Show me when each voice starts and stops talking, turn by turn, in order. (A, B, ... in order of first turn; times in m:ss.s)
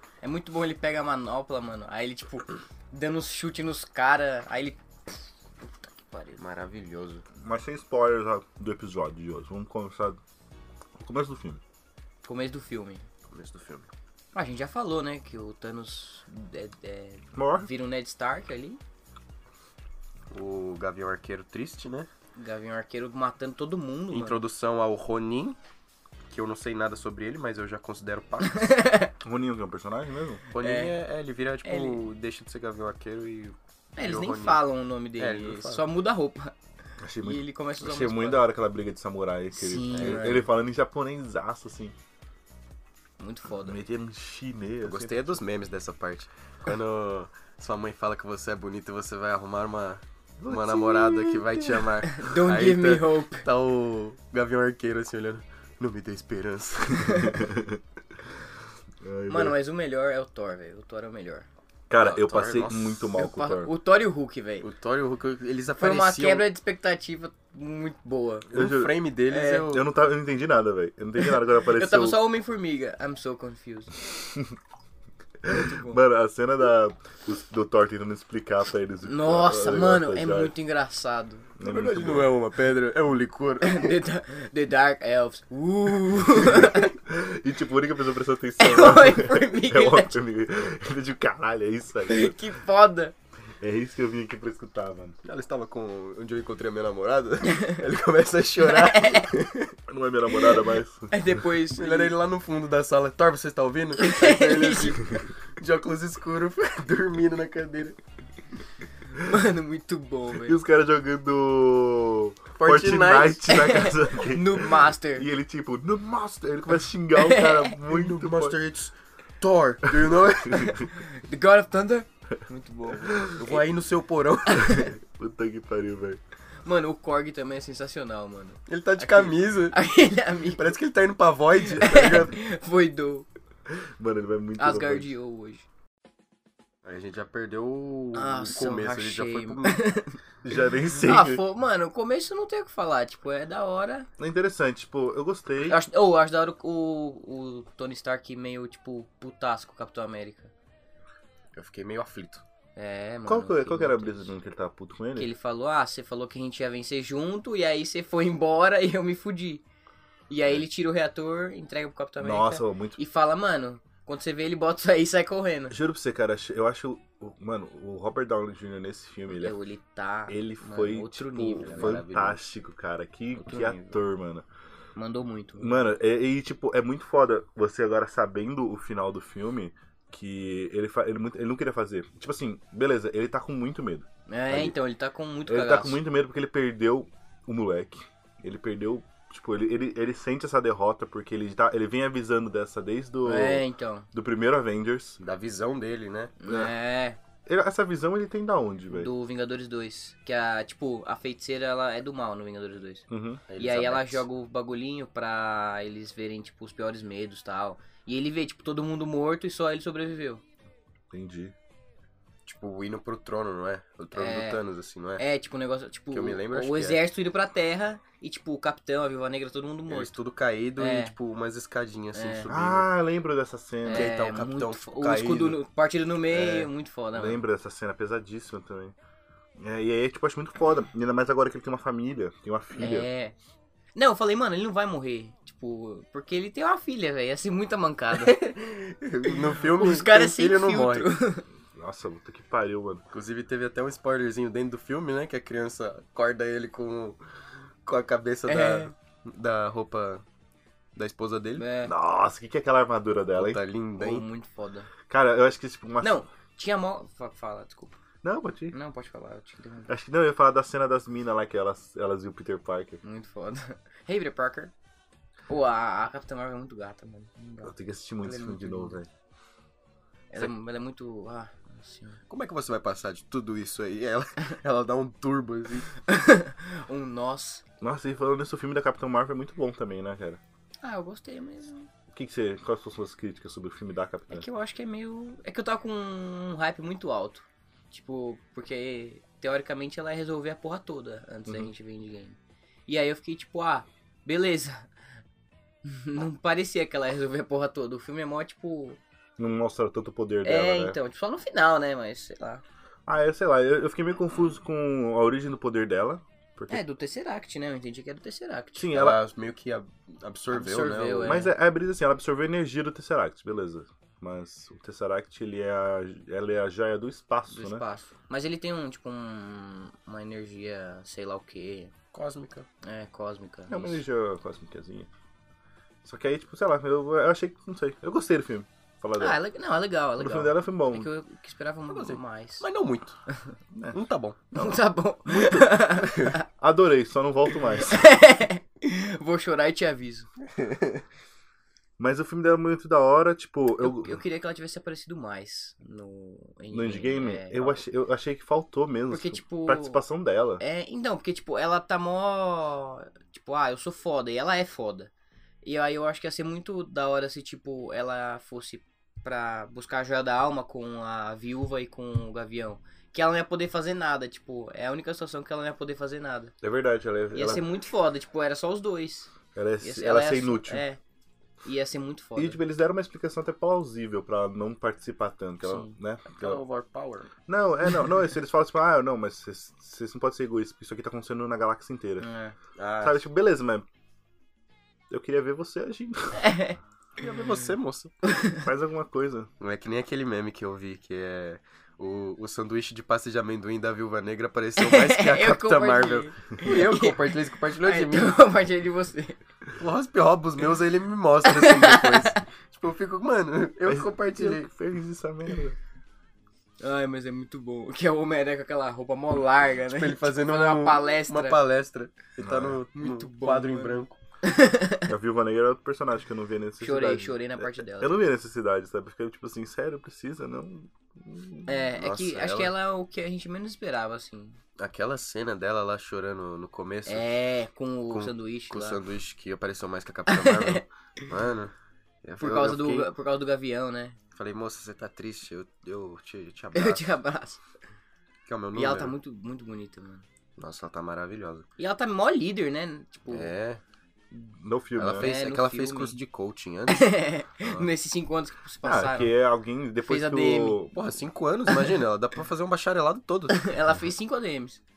0:00.2-0:06.4 A
0:06.4-0:07.2 B
0:07.4-0:10.2 C
0:11.0-0:11.6 C
0:12.2-0:13.0 A
0:13.3-0:13.9 B
0:14.3-0:18.8 A
0:17.3-0:17.7 C
0:20.3-0:22.1 B
0:22.4-0:24.4 A
0:24.1-0:25.6 B
0:26.3-0:28.8 B
0:28.4-0:29.1 A
0:29.2-0:30.4 C
0:30.5-0:34.6 B
0:30.6-0:30.9 A
0:31.6-0:32.0 A
0:34.0-0:36.5 A
0:35.2-0:35.8 B
0:37.0-0:41.9 C
0:37.2-0:38.5 A
0:39.5-0:40.4 A
0:39.9-0:40.4 B
0:43.2-0:43.8 A
0:43.6-0:45.4 C
0:44.8-0:57.4 B
0:50.4-0:51.9 C
0:52.0-0:53.4 A
0:57.0-0:57.3 A
0:57.1-0:57.8 C
0:59.0-0:59.6 C
0:59.3-1:01.5 A
1:01.9-1:03.7 C
1:02.0-1:03.0 B
1:03.1-1:04.7 A
1:04.6-1:06.4 B
1:05.8-1:08.5 A
1:08.5-1:09.9 B
1:08.5-1:09.0 C
1:09.3-1:09.7 A
1:09.6-1:12.2 C
1:11.2-1:13.9 A
1:14.1-1:14.5 C
1:15.4-1:20.5 C
1:15.5-1:16.0 A
1:19.0-1:21.5 A
1:21.6-1:22.3 C
1:21.6-1:24.0 B
1:23.6-1:26.9 A
1:27.0-1:32.4 C
1:28.6-1:30.1 A
1:32.0-1:33.1 A
1:33.6-1:35.2 C
1:35.2-1:39.7 B
1:38.6-1:39.3 A
1:39.9-1:41.1 C
1:41.1-1:42.1 A
1:41.8-1:48.0 B
1:44.0-1:45.2 A
1:49.1-1:50.6 A
1:50.3-1:58.6 C
1:52.6-1:53.8 B
1:53.5-1:55.3 A
1:57.2-1:57.7 A
1:57.9-2:00.8 B
1:59.9-2:00.8 C
2:00.8-2:03.6 A
2:03.0-2:03.4 C
2:03.3-2:04.8 B
2:04.5-2:04.9 A
2:04.6-2:06.2 C
2:06.6-2:10.8 A
2:08.7-2:09.8 B
2:10.6-2:12.4 B
2:11.8-2:13.2 A
2:13.7-2:15.1 C
2:14.6-2:15.6 A
2:16.8-2:19.8 B
2:18.1-2:20.2 A
2:20.4-2:21.4 C
2:20.9-2:24.1 A
2:24.2-2:25.8 C
2:25.6-2:30.5 A
2:31.6-2:32.4 B
2:32.8-2:34.3 A
2:33.2-2:35.3 C
2:35.2-2:39.6 A
2:40.3-2:45.8 A
2:42.2-2:43.0 C
2:45.7-2:49.6 C
2:49.3-2:52.0 A
2:50.3-2:54.4 C
2:51.6-2:52.4 B
2:53.4-2:54.0 A
2:55.0-2:55.8 A
2:55.6-3:04.7 C
3:04.3-3:06.0 A
3:05.5-3:15.2 C
3:13.2-3:14.1 A
3:15.2-3:16.3 B
3:16.4-3:17.2 A
3:16.5-3:16.7 C
3:17.4-3:19.1 C
3:18.9-3:23.0 A
3:23.1-3:23.4 C
3:23.5-3:24.2 B
3:23.6-3:30.4 A
3:31.1-3:31.5 C
3:32.4-3:35.2 B
3:34.2-3:34.6 A
3:35.2-3:40.2 A
3:36.1-3:37.0 B
3:39.9-3:42.9 B
3:40.8-3:41.1 A
3:42.1-3:42.5 A
3:42.5-3:44.1 C
3:43.8-3:47.4 A
3:43.9-3:45.6 B
3:46.3-3:48.9 C
3:49.6-3:53.1 C
3:52.8-3:53.3 A
3:53.9-3:58.4 A
3:58.1-4:01.1 B
3:59.2-4:01.4 A
4:01.7-4:03.0 C
4:03.1-4:07.2 B
4:07.8-4:10.2 B
4:08.5-4:08.9 A
4:11.0-4:11.6 B
4:11.6-4:11.9 A
4:11.8-4:13.6 C
4:13.4-4:14.2 B
4:14.0-4:14.9 A
4:15.1-4:16.2 C
4:16.0-4:18.0 A
4:18.2-4:18.8 C
4:18.7-4:19.9 A
4:19.9-4:23.0 C
4:23.0-4:24.7 A
4:25.5-4:29.0 A
4:27.6-4:29.1 C
4:30.3-4:32.2 A
4:32.3-4:35.9 B
4:36.0-4:37.6 A
4:37.8-4:40.4 C
4:40.8-4:41.9 A
4:42.1-4:44.5 C
4:44.3-4:54.9 A
4:55.8-4:59.0 A
4:59.4-5:01.0 C
5:00.4-5:02.6 A
5:03.1-5:06.8 C
5:06.7-5:09.0 A
5:08.8-5:09.2 C
5:08.9-5:11.4 B
5:10.5-5:11.5 A
5:11.2-5:17.8 C
5:17.5-5:21.9 A
5:22.1-5:22.7 B
5:22.8-5:24.0 A
5:23.7-5:25.1 C
5:26.0-5:29.4 C
5:29.2-5:32.6 A
5:30.2-5:31.1 C
5:31.9-5:33.2 B
5:33.7-5:34.0 C
5:33.9-5:34.5 B
5:34.5-5:36.4 A
5:35.3-5:35.7 C
5:36.0-5:36.3 B
5:36.6-5:38.1 C
5:37.8-5:40.3 A
5:40.6-5:40.9 B
5:42.0-5:44.2 C
5:43.8-5:47.8 A
5:46.7-5:50.6 C
5:49.1-5:50.0 A
5:50.6-5:55.1 A
5:55.6-6:06.5 A
6:06.6-6:07.6 C
6:07.3-6:11.0 A
6:09.5-6:10.8 C
6:11.6-6:12.6 A
6:12.4-6:16.6 C
6:15.6-6:15.9 A
6:16.3-6:17.3 B
6:17.4-6:22.3 C
6:22.2-6:22.6 A
6:22.8-6:23.2 B
6:23.0-6:23.8 C
6:25.1-6:26.6 C
6:26.4-6:26.8 A
6:27.2-6:28.1 B
6:28.3-6:28.6 A
6:28.6-6:29.5 C
6:29.6-6:38.4 B
6:34.8-6:39.4 A
6:39.8-6:44.7 B
6:41.5-6:42.4 A
6:43.8-6:45.8 C
6:46.8-6:51.6 A
6:49.8-6:54.2 B
6:52.4-6:52.8 C
6:53.0-6:55.1 A
6:55.1-7:01.8 C
6:56.8-6:58.2 A
7:01.6-7:04.6 A
7:02.0-7:02.7 B
7:04.8-7:07.2 B
7:07.1-7:09.0 A
7:08.1-7:11.7 B
7:10.3-7:10.8 A
7:12.2-7:13.1 B
7:12.4-7:14.2 A
7:14.3-7:17.1 B
7:16.7-7:17.6 A
7:18.4-7:19.1 B
7:18.7-7:20.2 A
7:20.6-7:21.6 B
7:21.8-7:23.5 A
7:23.3-7:23.8 B
7:24.3-7:25.3 C
7:25.0-7:27.9 B
7:25.2-7:26.2 A
7:26.9-7:29.3 A
7:28.8-7:30.9 C
7:30.0-7:30.8 A
7:30.9-7:33.7 B
7:33.5-7:34.8 A